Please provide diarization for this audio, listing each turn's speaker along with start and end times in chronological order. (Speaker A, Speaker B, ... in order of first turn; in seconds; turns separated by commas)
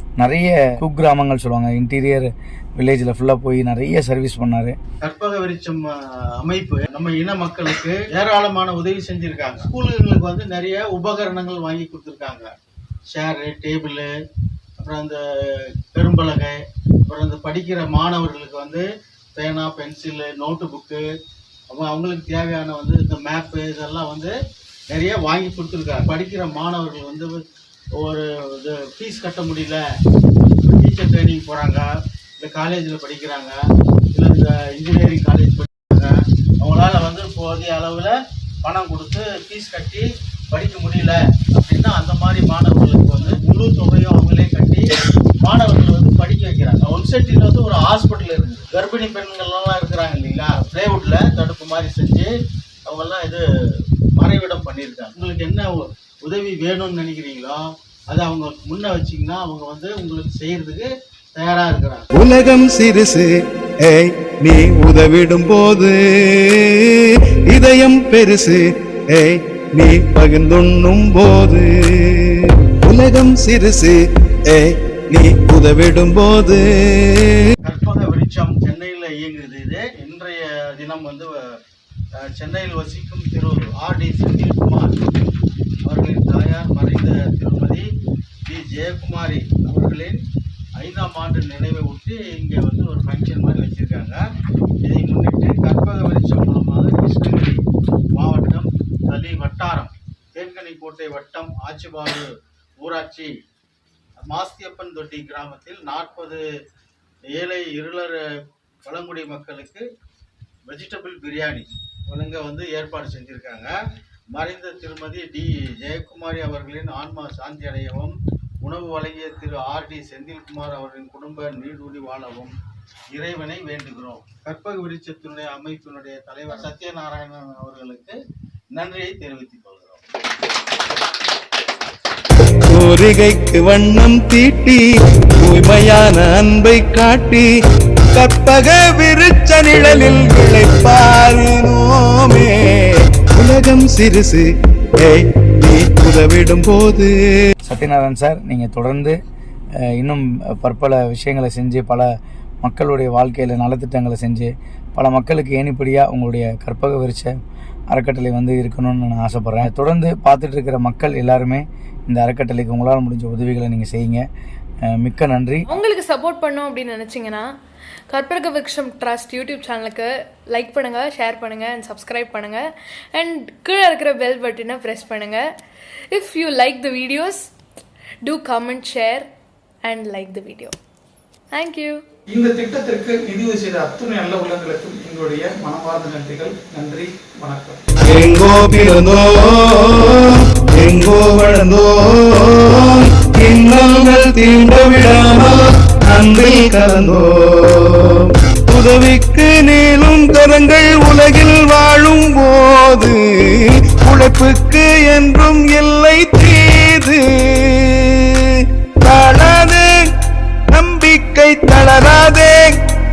Speaker A: 0.2-4.8, Speaker B: 5.0-12.5, Speaker B: 13.1-14.1, Speaker B: 14.8-21.0, Speaker B: 21.7-24.3, Speaker B: 24.9-27.4, Speaker B: 28.0-29.8, Speaker B: 30.7-31.9, Speaker B: 32.4-33.6, Speaker B: 34.1-44.9, Speaker B: 45.4-52.3, Speaker B: 52.9-53.4, Speaker B: 54.2-62.0, Speaker C: 62.1-63.3, Speaker C: 63.8-77.4, Speaker B: 77.6-81.4, Speaker B: 82.2-84.9, Speaker B: 85.8-87.9, Speaker B: 88.5-90.2, Speaker B: 90.8-94.2, Speaker B: 94.8-97.6, Speaker B: 98.2-102.3, Speaker B: 102.8-103.3, Speaker B: 104.2-106.4, Speaker B: 107.3-108.2, Speaker B: 108.8-109.8, Speaker B: 110.7-113.7, Speaker B: 114.3-122.5, Speaker B: 123.1-128.2, Speaker B: 128.7-130.0, Speaker C: 132.7-137.5, Speaker C: 138.1-147.1, Speaker A: 147.6-149.2, Speaker A: 149.8-152.1, Speaker A: 152.6-157.3, Speaker A: 157.9-164.2, Speaker A: 164.8-165.7, Speaker D: 165.7-167.5, Speaker D: 168.1-175.5, Speaker D: 176.1-177.5, Speaker D: 178.2-179.3, Speaker D: 179.8-180.8, Speaker D: 181.5-182.0, Speaker E: 182.3-187.8, Speaker C: 188.1-210.1, Speaker C: 210.7-212.8